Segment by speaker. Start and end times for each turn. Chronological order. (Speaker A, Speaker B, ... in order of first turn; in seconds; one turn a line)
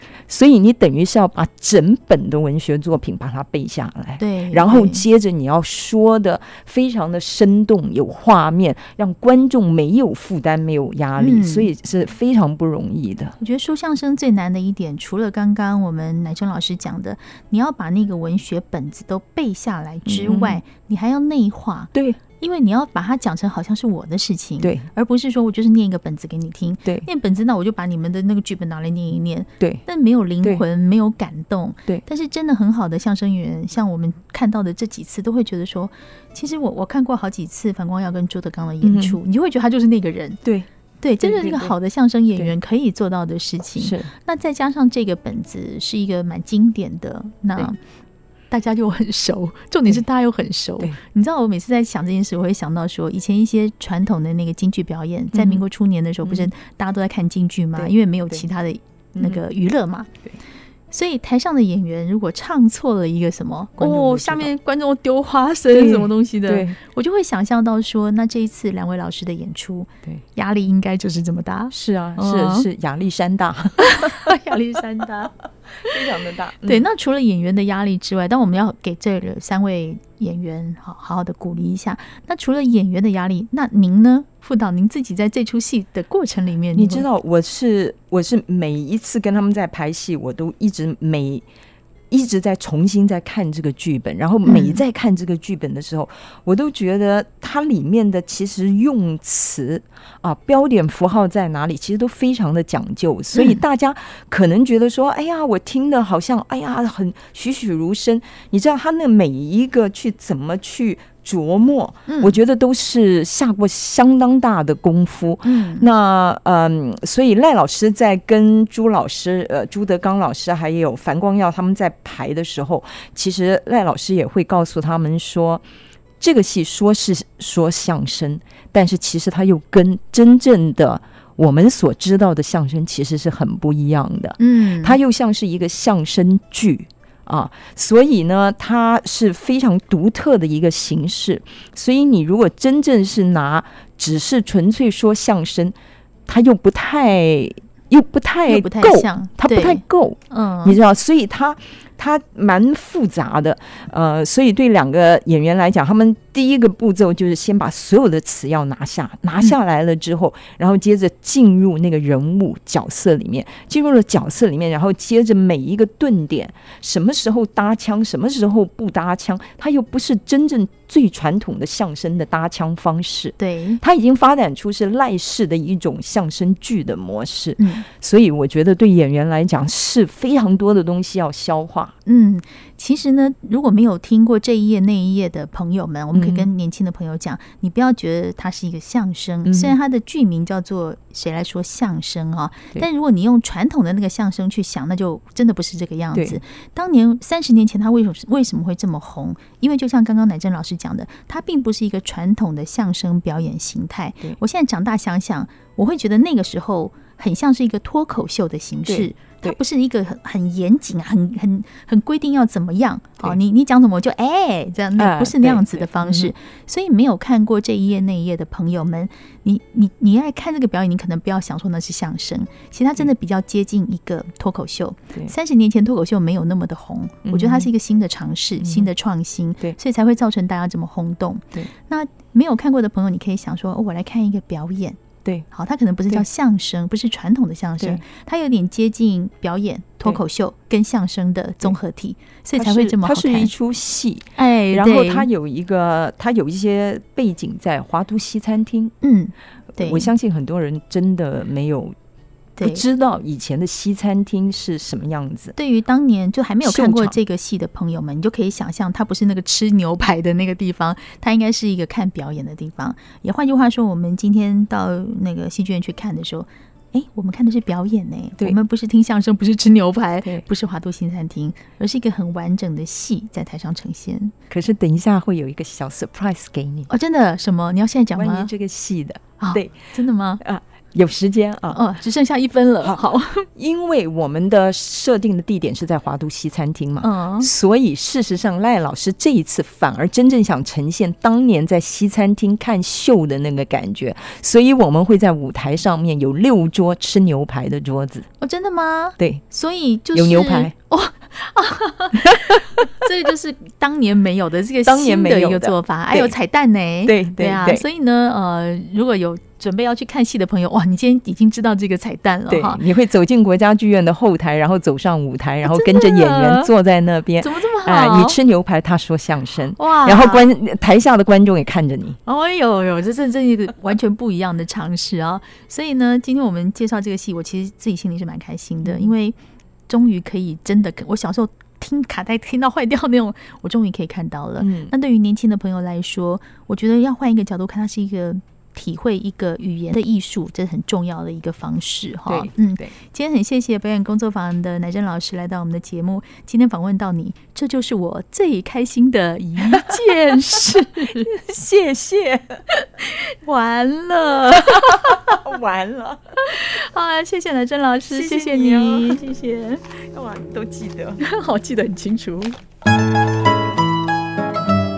Speaker A: 0.3-13.3
Speaker B: 4.2-5.0
Speaker B: 11.2-11.7
Speaker B: 13.4-40.4
Speaker A: 20.1-20.6
Speaker A: 21.9-22.2
Speaker A: 24.6-24.9
Speaker A: 38.8-39.2
Speaker B: 41.0-47.8
Speaker A: 41.2-41.7
Speaker A: 43.8-44.1
Speaker B: 48.5-60.1
Speaker A: 55.3-55.6
Speaker A: 56.2-56.5
Speaker A: 57.8-58.5
Speaker A: 59.1-59.4
Speaker B: 60.9-72.7
Speaker A: 63.8-64.5
Speaker A: 65.7-66.8
Speaker A: 71.7-74.3
Speaker B: 73.8-75.3
Speaker A: 75.9-76.8
Speaker B: 76.6-87.1
Speaker A: 86.7-91.4
Speaker A: 92.1-125.6
Speaker B: 94.5-94.8
Speaker B: 103.3-103.6
Speaker B: 112.1-112.4
Speaker B: 115.4-115.9
Speaker A: 126.2-145.7
Speaker B: 134.4-135.0
Speaker A: 146.3-181.9
Speaker B: 148.5-150.8
Speaker B: 173.4-173.8
Speaker B: 177.6-177.8
Speaker B: 182.1-235.0
Speaker A: 186.1-186.5
Speaker A: 189.4-189.8
Speaker A: 196.1-196.4
Speaker A: 208.9-209.6
Speaker A: 214.9-216.3
Speaker A: 227.2-227.7
Speaker A: 228.6-228.9
Speaker B: 235.5-243.5
Speaker A: 242.6-248.9
Speaker B: 244.3-245.3
Speaker B: 249.0-250.1
Speaker A: 249.8-251.9
Speaker B: 252.6-252.8
Speaker A: 252.6-255.5
Speaker B: 255.6-274.3
Speaker A: 256.6-257.2
Speaker A: 274.5-276.9
Speaker B: 276.9-278.5
Speaker A: 278.1-279.8
Speaker B: 279.4-280.4
Speaker A: 280.4-281.8
Speaker B: 281.7-283.5
Speaker A: 283.5-298.3
Speaker B: 287.0-287.5
Speaker B: 298.4-312.8
Speaker A: 300.1-300.7
Speaker A: 304.8-306.3
Speaker A: 307.0-307.8
Speaker A: 312.5-322.2
Speaker B: 315.6-316.7
Speaker B: 317.4-318.4
Speaker B: 319.8-320.5
Speaker B: 322.2-329.4
Speaker A: 328.8-329.1
Speaker B: 329.9-351.3
Speaker A: 334.6-334.9
Speaker A: 342.3-342.9
Speaker A: 349.7-350.0
Speaker A: 350.7-352.6
Speaker B: 352.8-355.4
Speaker A: 354.7-356.2
Speaker B: 356.5-359.7
Speaker A: 358.0-361.2
Speaker B: 361.2-362.6